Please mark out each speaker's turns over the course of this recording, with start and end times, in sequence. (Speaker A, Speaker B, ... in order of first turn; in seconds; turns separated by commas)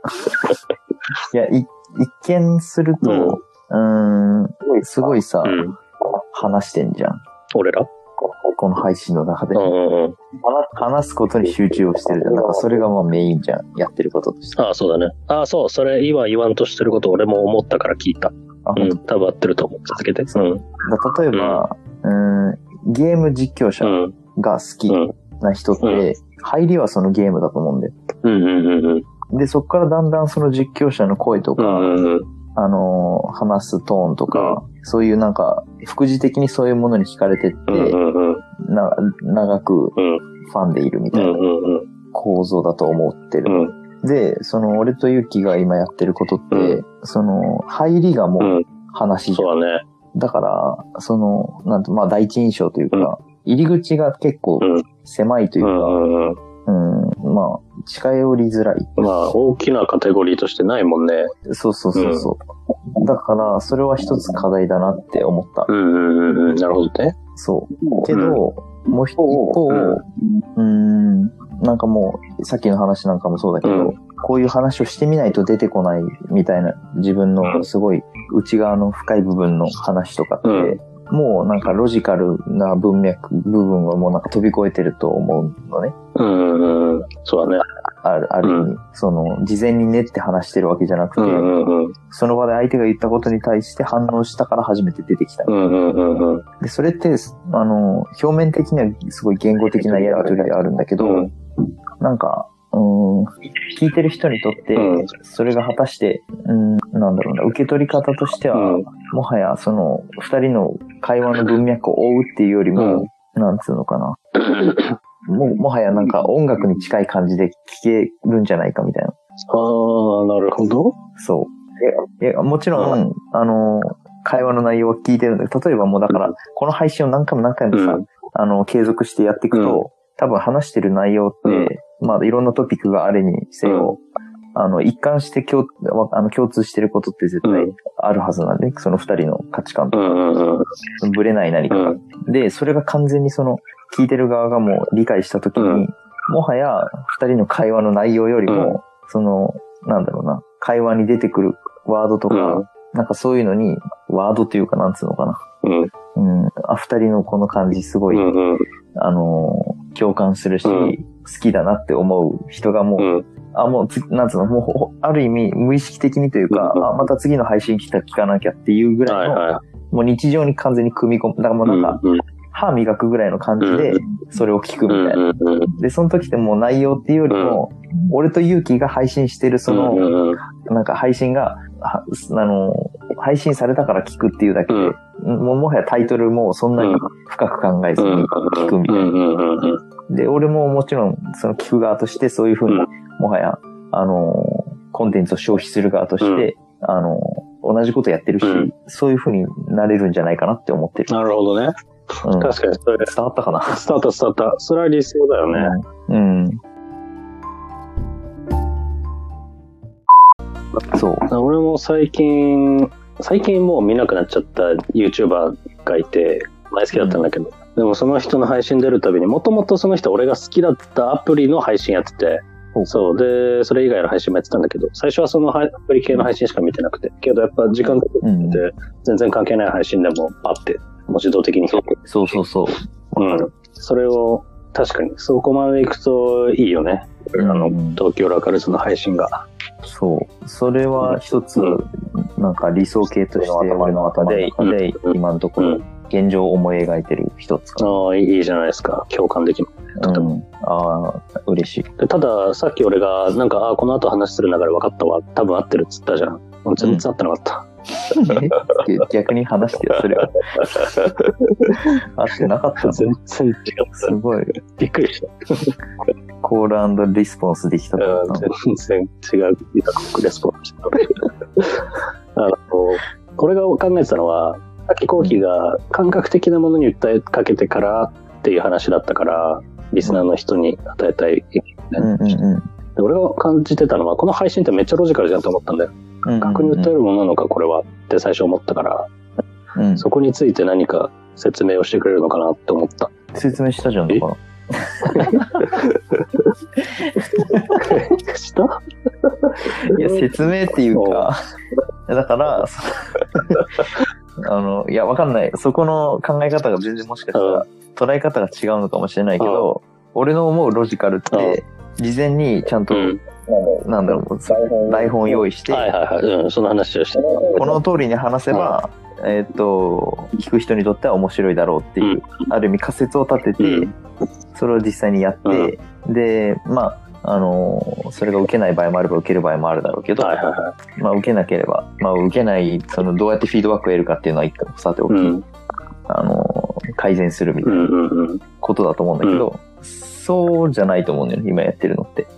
Speaker A: 1.3-5.6, Speaker B: 3.0-3.4, Speaker B: 5.4-5.8, Speaker A: 6.3-7.2, Speaker B: 7.6-7.9, Speaker A: 8.6-9.7, Speaker B: 9.6-10.2, Speaker A: 10.4-14.6, Speaker B: 14.6-20.6, Speaker A: 18.7-19.0, Speaker A: 20.4-27.9, Speaker B: 21.3-21.6, Speaker B: 23.8-24.1, Speaker B: 28.2-29.1, Speaker A: 29.3-32.0, Speaker B: 31.6-32.3, Speaker A: 32.6-38.0, Speaker B: 34.3-34.6, Speaker B: 37.7-38.4, Speaker A: 38.6-40.0, Speaker B: 40.0-40.2, Speaker A: 40.5-41.4, Speaker B: 41.1-41.9, Speaker A: 42.1-49.5, Speaker B: 43.5-43.8, Speaker B: 46.5-46.8, Speaker B: 49.3-49.8, Speaker A: 50.1-56.0, Speaker B: 55.6-56.4, Speaker A: 56.7-59.1, Speaker B: 59.0-61.3, Speaker A: 61.5-62.4, Speaker B: 62.0-62.3, Speaker A: 63.0-65.7, Speaker B: 65.7-67.2, Speaker A: 67.4-70.0, Speaker B: 68.1-68.4, Speaker B: 69.2-70.0, Speaker A: 70.6-86.0, Speaker B: 73.6-74.0, Speaker B: 80.5-80.8, Speaker B: 86.2-87.6, Speaker A: 88.0-91.5, Speaker B: 88.4-88.7, Speaker B: 91.2-92.0, Speaker A: 92.1-95.5, Speaker B: 95.5-96.4, Speaker A: 96.6-101.3, Speaker B: 99.8-101.3, Speaker A: 102.0-114.2, Speaker B: 104.8-105.1, Speaker B: 108.5-108.9, Speaker B: 112.8-113.1, Speaker B: 114.5-114.9, Speaker A: 115.3-119.2, Speaker B: 119.5-121.0, Speaker A: 121.2-134.0, Speaker B: 122.8-123.0, Speaker B: 127.7-128.1, Speaker B: 129.5-129.8, Speaker B: 131.4-131.7, Speaker B: 133.7-133.9, Speaker A: 134.6-140.2, Speaker B: 137.4-137.7, Speaker B: 139.9-140.7, Speaker A: 141.0-155.4, Speaker B: 141.7-142.0, Speaker B: 145.6-145.8, Speaker B: 148.5-148.8, Speaker B: 152.3-152.7, Speaker B: 155.6-155.9, Speaker A: 156.2-158.3, Speaker B: 158.1-158.7, Speaker A: 159.0-172.0, Speaker B: 160.7-161.0, Speaker B: 163.0-163.3, Speaker B: 166.5-167.0, Speaker B: 169.1-169.6, Speaker B: 171.6-172.2, Speaker A: 172.5-175.2, Speaker B: 173.6-174.0, Speaker B: 174.9-175.8, Speaker A: 175.8-180.1, Speaker B: 177.3-177.6, Speaker B: 179.7-180.4, Speaker A: 180.7-189.1, Speaker B: 184.7-184.9, Speaker B: 186.8-187.1, Speaker B: 188.0-189.8, Speaker A: 190.1-201.1, Speaker B: 196.2-196.5, Speaker B: 198.4-198.7, Speaker B: 201.1-201.7, Speaker A: 202.2-203.8, Speaker B: 202.3-203.1, Speaker B: 203.7-205.7, Speaker A: 205.5-206.6, Speaker A: 210.9-211.3, Speaker B: 211.3-232.4, Speaker A: 216.9-217.3, Speaker A: 222.7-223.0, Speaker A: 228.2-228.6, Speaker A: 232.1-233.5, Speaker B: 233.2-239.4, Speaker A: 237.4-238.0, Speaker A: 239.8-248.0, Speaker B: 241.0-241.8, Speaker B: 243.4-245.8, Speaker B: 247.8-250.3, Speaker A: 250.0-251.9, Speaker B: 252.0-258.8, Speaker A: 256.8-257.1, Speaker A: 258.2-260.4, Speaker B: 259.9-261.7, Speaker A: 262.1-263.1, Speaker B: 262.8-265.8, Speaker A: 264.0-264.5, Speaker A: 266.4-268.5, Speaker B: 268.0-282.4, Speaker A: 282.0-282.7, Speaker B: 283.0-289.1, Speaker A: 286.2-286.9, Speaker A: 289.8-290.0, Speaker B: 290.0-293.1, Speaker A: 293.4-295.4, Speaker B: 295.1-296.2, Speaker A: 297.4-297.9, Speaker B: 297.8-300.3, Speaker A: 299.9-301.4, Speaker B: 300.9-301.3, Speaker A: 302.1-303.6, Speaker A: 304.4-315.9, Speaker B: 307.3-307.6, Speaker B: 309.4-309.7, Speaker B: 311.3-311.6, Speaker B: 312.9-313.2, Speaker B: 314.6-317.8, Speaker A: 317.6-323.9, Speaker B: 318.5-318.8, Speaker B: 322.0-322.5, Speaker B: 323.6-323.9, Speaker A: 324.5-330.4, Speaker B: 325.4-325.7, Speaker B: 330.2-330.8, Speaker A: 331.0-335.4, Speaker B: 335.1-335.4, Speaker A: 336.1-337.9, Speaker B: 337.6-338.4, Speaker A: 338.6-342.3